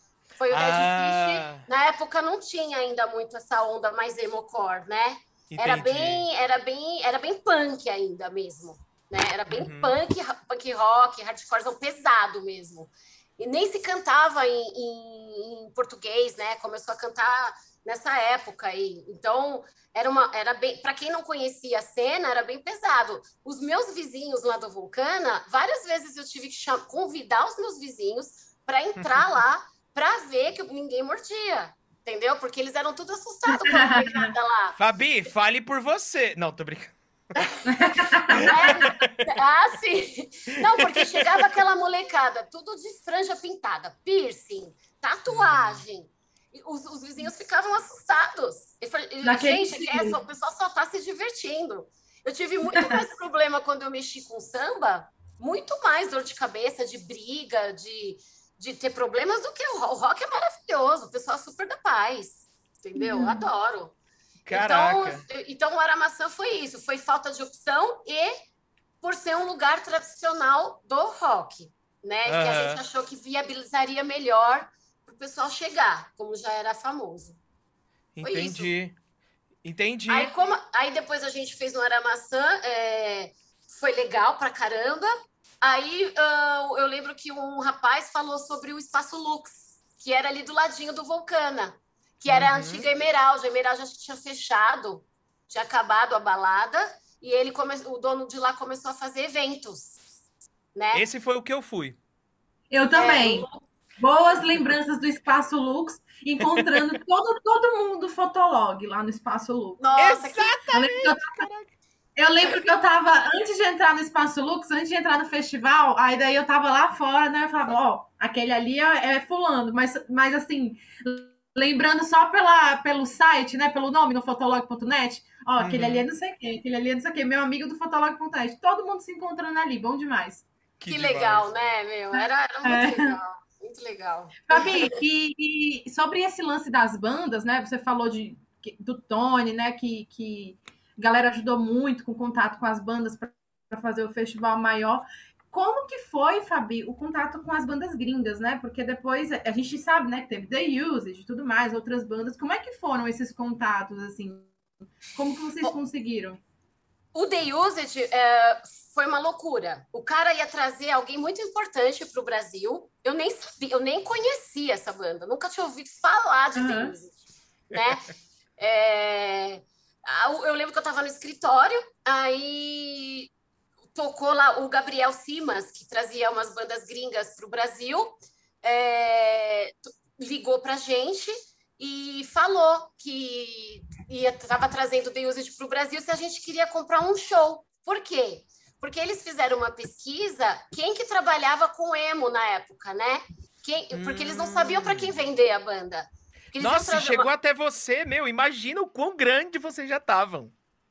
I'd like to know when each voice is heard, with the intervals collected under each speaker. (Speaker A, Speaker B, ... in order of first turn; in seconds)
Speaker A: 0.4-34.8, 38.4-63.9, 64.5-68.3, 69.0-77.4, 78.2-78.7, 80.1-100.0, 100.7-101.0, 102.9-103.6, 109.8-110.6, 130.9-134.9, 157.1-167.1, 167.7-173.3, 173.9-197.3
Speaker B: 0.5-1.6, 5.5-6.2, 9.5-9.9, 34.8-37.4, 38.3-39.1, 40.7-41.2, 45.3-45.8, 64.4-65.2, 72.2-72.8, 78.2-78.9, 79.6-80.3, 92.3-92.8, 100.9-102.0, 110.0-111.7, 125.6-126.1, 130.8-131.5, 193.9-195.1, 196.6-200.5
Speaker C: 33.5-34.3, 37.6-38.9, 49.2-50.1, 52.7-53.0, 63.0-63.5, 102.7-103.5, 104.0-109.8, 110.7-111.5, 112.2-130.4, 132.2-133.2, 134.5-154.5, 155.1-156.4, 166.6-166.9